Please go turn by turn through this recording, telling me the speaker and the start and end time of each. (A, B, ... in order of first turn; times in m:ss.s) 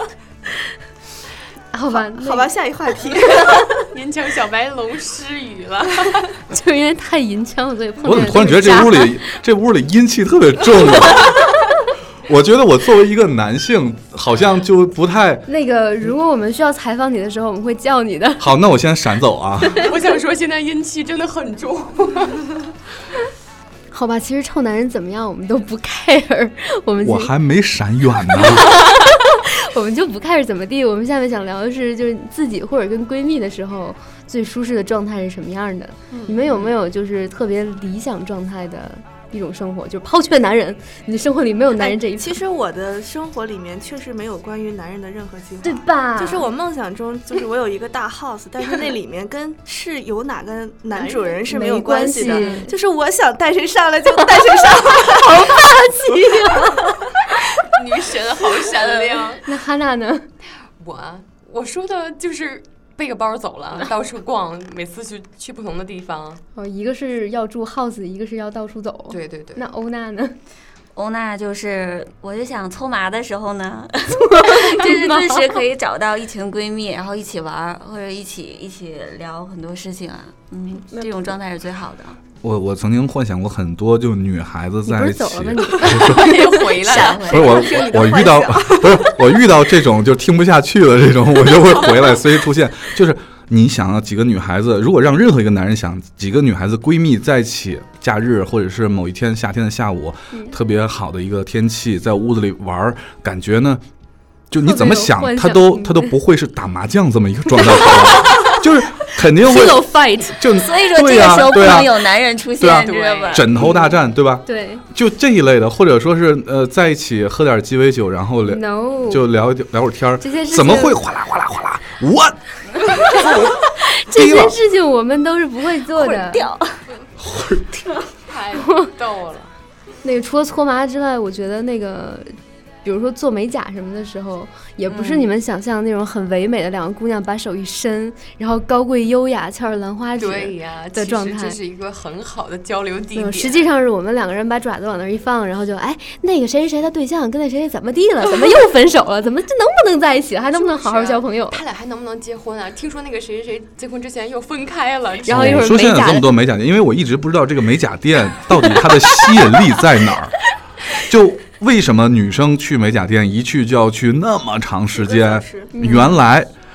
0:01.7-0:02.5 A
0:01.9-0:03.8 B
0:03.9-0:06.3 C
0:06.5-0:09.1 A
0:08.0-0:11.5 D
0:12.3-0:15.5 D
0:15.5-0:18.5 A
0:18.4-0:19.9 D
0:19.8-0:22.5 C
0:23.9-0:27.3 A
0:27.0-0:28.7 D
0:28.3-0:42.4 A
0:36.1-0:36.4 B
0:41.8-0:55.6 B
0:45.6-0:46.5 A
0:50.9-0:51.4 C
0:51.5-0:52.7 A
0:52.2-0:52.6 C
0:55.1-0:56.9 A
0:56.4-0:56.8 B
0:57.6-0:59.4 C
0:59.4-1:00.3 A
1:00.8-1:06.4 C
1:06.5-1:10.4 A
1:09.1-1:09.7 C
1:10.9-1:22.2 E
1:14.1-1:15.6 A
1:20.9-1:21.3 A
1:22.4-1:26.3 D
1:24.9-1:26.6 A
1:25.8-1:27.7 C
1:26.8-1:27.8 E
1:27.0-1:29.4 B
1:27.3-1:43.8 D
1:44.5-1:49.8 D
1:44.6-1:46.1 A
1:47.6-1:48.5 A
1:49.4-1:50.4 A
1:50.4-1:52.0 D
1:50.5-1:53.5 E
1:52.6-2:04.6 D
1:52.6-1:53.5 C
1:53.6-1:53.9 A
1:54.4-1:54.8 A
1:58.5-1:59.2 A
2:00.2-2:01.0 A
2:04.0-2:06.5 A
2:05.9-2:06.8 E
2:07.2-2:07.8 D
2:08.3-2:09.5 C
2:10.0-2:21.6 A
2:14.9-2:15.3 E
2:20.2-2:23.7 C
2:23.1-2:31.6 A
2:30.5-2:35.7 C
2:35.2-2:36.2 A
2:35.3-2:40.4 D
2:41.0-2:46.5 D
2:44.9-2:45.7 B
2:45.7-2:46.2 A